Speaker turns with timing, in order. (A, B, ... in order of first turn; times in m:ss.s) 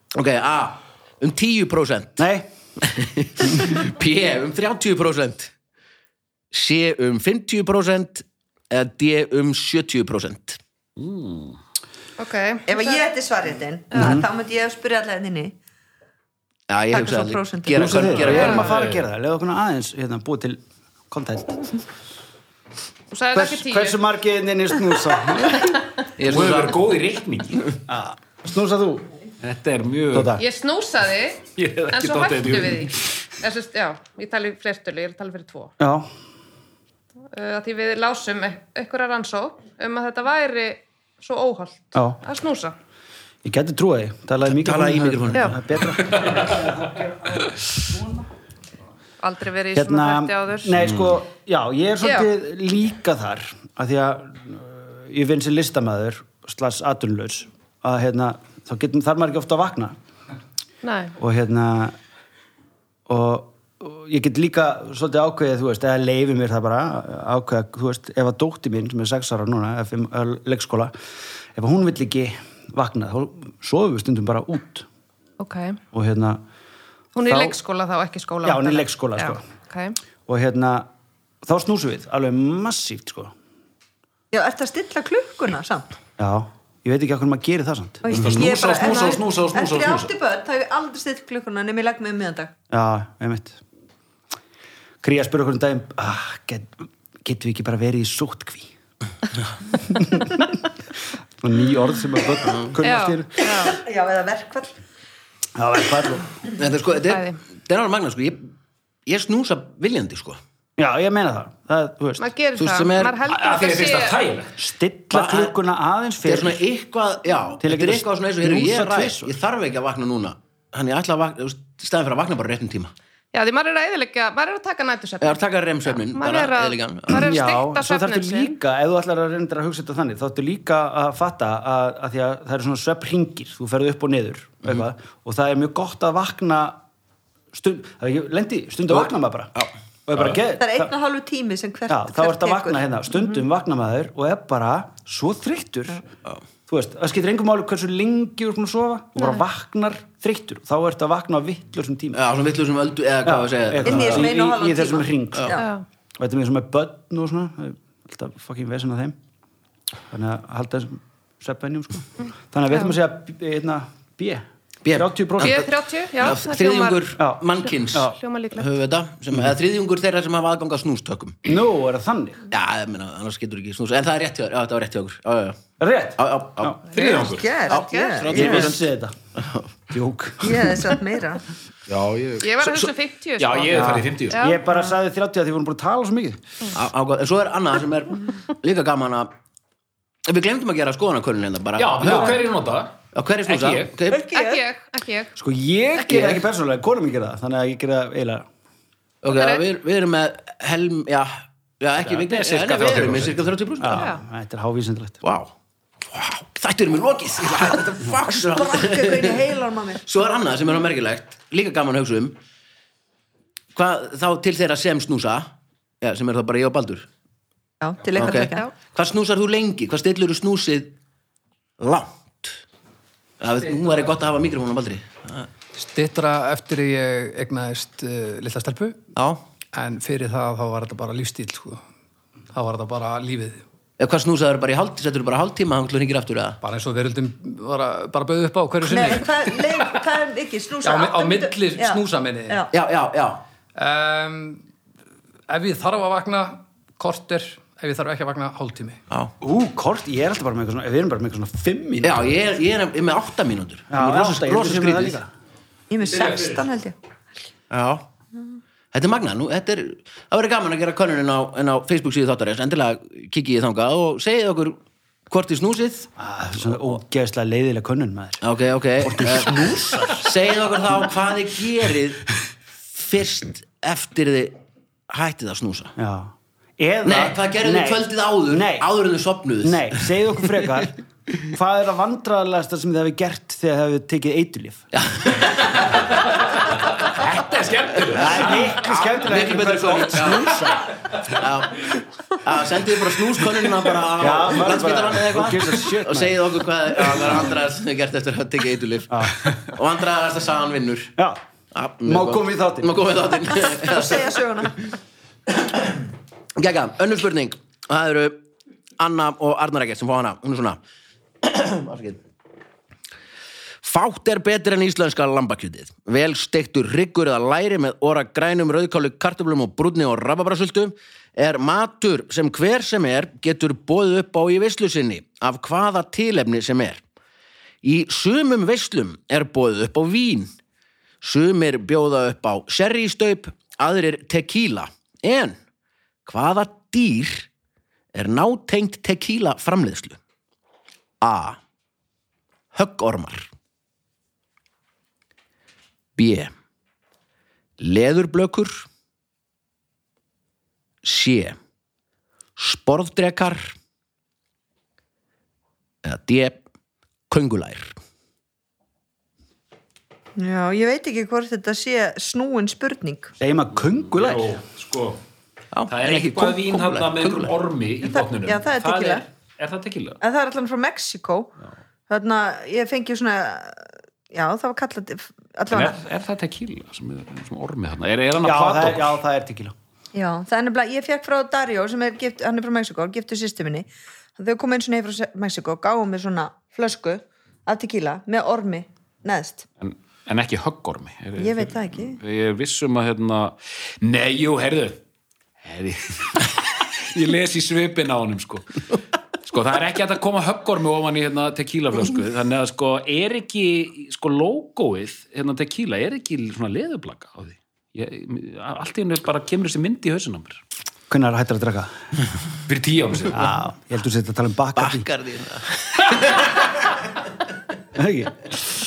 0:00.1-0:02.2 A
0:02.2-0:02.5 B
0:02.8-0:05.5 A
0:06.5-0:10.6 A
0:11.0-0:11.6 C
0:12.2-0:13.1 D
0:12.7-0:15.5 E
0:13.9-0:14.2 D
0:13.9-0:14.3 B
0:16.7-0:18.7 A
0:16.9-0:18.5 E
0:17.7-0:21.7 B
0:18.3-0:18.7 D
0:18.5-0:19.0 C
0:23.1-0:24.0 D
0:23.3-0:25.8 B
0:26.2-0:26.8 A
0:26.2-0:27.6 C
0:27.9-0:29.1 B
0:29.4-0:30.4 C
0:30.1-0:30.4 B
0:30.4-0:35.7 D
0:31.5-0:33.2 C
0:35.8-0:36.1 B
0:37.3-0:42.7 D
0:41.9-0:42.2 B
0:43.4-0:48.2 B
0:44.4-0:45.8 A
0:49.2-0:50.8 D
0:49.7-0:59.9 B
0:52.0-0:52.3 D
1:00.8-1:01.1 D
1:01.2-1:02.0 B
1:03.1-1:10.9 B
1:11.5-1:14.9 B
1:15.4-1:15.8 D
1:15.9-1:16.4 B
1:17.1-1:20.0 D
1:17.2-1:17.6 B
1:18.4-1:19.4 B
1:20.3-1:20.9 B
1:21.4-1:23.3 B
1:24.3-1:25.9 E
1:26.2-1:28.1 B
1:28.0-1:32.5 E
1:28.1-1:30.1 C
1:28.8-1:29.2 D
1:32.7-1:33.6 B
1:35.0-1:38.7 B
1:39.8-1:40.4 B
1:41.4-1:43.6 B
1:42.5-1:42.7 A
1:42.8-1:43.8 D
1:43.6-1:44.7 E
1:45.6-1:46.3 B
1:46.6-1:48.5 A
1:47.1-1:47.4 D
1:49.0-1:50.4 A
1:50.8-1:52.3 B
1:52.2-1:54.2 D
1:52.6-1:53.2 A
1:53.2-1:54.5 C
1:54.6-1:56.6 B
1:55.1-1:55.6 A
1:56.2-2:02.9 A
1:57.6-1:59.4 B
2:03.3-2:05.4 D
2:05.2-2:07.3 A
2:06.0-2:08.6 D
2:07.1-2:16.8 B
2:17.5-2:19.6 B
2:18.9-2:19.7 A
2:20.1-2:20.9 B
2:20.6-2:22.8 E
2:21.9-2:26.0 B
2:26.7-2:32.2 B
2:29.2-2:29.4 D
2:32.1-2:34.4 A
2:33.2-2:35.6 B
2:33.8-2:35.6 E
2:35.6-2:35.8 D
2:36.2-2:39.2 B
2:40.1-2:45.7 B
2:44.8-2:51.5 A
2:45.4-2:47.1 D
2:47.2-2:48.2 B
2:47.6-2:48.7 D
2:51.4-2:52.4 B
2:52.5-2:55.6 A
2:55.8-2:56.8 B
2:56.2-2:59.7 A
2:56.9-2:57.6 C
2:57.0-2:58.7 E
2:58.3-2:59.2 B
2:59.9-3:00.9 B
3:00.4-3:01.4 E
3:01.9-3:02.6 C
3:02.4-3:04.9 D
3:03.4-3:04.4 C
3:03.7-3:06.4 B
3:06.7-3:09.3 A
3:10.2-3:12.4 A
3:11.8-3:14.0 C
3:12.0-3:12.4 B
3:13.1-3:14.3 A
3:14.1-3:14.6 E
3:14.3-3:15.3 D
3:15.4-3:18.4 B
3:16.0-3:16.4 A
3:19.2-3:24.1 A
3:19.3-3:19.6 D
3:22.0-3:23.5 C
3:23.8-3:25.2 B
3:23.9-3:24.2 D
3:25.2-3:25.5 A
3:26.1-3:29.4 A
3:28.3-3:30.0 E
3:30.0-3:32.4 A
3:33.7-3:37.1 A
3:37.8-3:38.6 E
3:38.2-3:40.9 A
3:38.3-3:38.7 D
3:41.8-3:42.6 A
3:43.4-3:45.5 A
3:45.8-3:49.0 F
3:49.1-3:49.4 A
3:49.7-3:51.8 F
3:52.5-3:53.6 F
3:54.0-3:56.6 A
3:56.6-3:59.7 F
3:58.8-4:02.7 E
4:00.8-4:02.6 F
4:02.7-4:03.4 A
4:03.8-4:04.6 F
4:05.5-4:09.0 F
4:09.4-4:12.4 B
4:12.0-4:15.2 A
4:13.9-4:15.3 B
4:15.9-4:17.0 E
4:16.0-4:16.6 C
4:17.7-4:18.0 A
4:18.9-4:24.8 A
4:25.3-4:26.1 A
4:26.2-4:28.4 B
4:28.4-4:32.2 A
4:29.0-4:30.3 B
4:32.9-4:34.6 A
4:35.1-4:35.9 A
4:36.0-4:38.9 B
4:37.0-4:40.0 A
4:39.6-4:44.9 B
4:44.9-4:46.1 A
4:46.4-4:48.8 C
4:48.1-4:50.9 B
4:48.5-4:50.6 A
4:51.2-5:01.1 A
4:54.2-4:57.4 B
4:59.1-4:59.4 B
5:01.7-5:04.8 A
5:02.0-5:02.9 B
5:03.6-5:04.8 E
5:05.6-5:06.0 A
5:06.6-5:08.4 A
5:09.0-5:10.8 A
5:11.4-5:12.2 A
5:13.8-5:27.0 A
5:27.8-5:30.5 A
5:31.2-5:35.6 A
5:36.2-5:37.5 A
5:38.1-5:40.2 A
5:41.2-5:41.6 A
5:42.7-5:43.5 A
5:46.2-5:46.5 A
5:47.8-5:48.8 A
5:51.0-5:51.6 A
5:52.6-5:53.7 A
5:56.0-5:56.6 A
5:57.3-5:58.0 A
6:00.4-6:03.3 E
6:03.4-6:04.6 B
6:04.1-6:05.2 C
6:05.7-6:07.5 A
6:05.9-6:10.2 C
6:08.0-6:09.2 E
6:10.2-6:11.5 E
6:12.1-6:16.0 E
6:15.7-6:19.2 C
6:18.4-6:19.7 B
6:20.1-6:29.6 E
6:29.8-6:35.0 C
6:31.4-6:32.2 E
6:35.6-6:38.8 C
6:39.4-6:50.6 C
6:51.1-6:51.9 B
6:52.7-6:53.5 C
6:53.3-6:55.1 B
6:54.8-6:56.5 A
6:57.9-6:58.4 B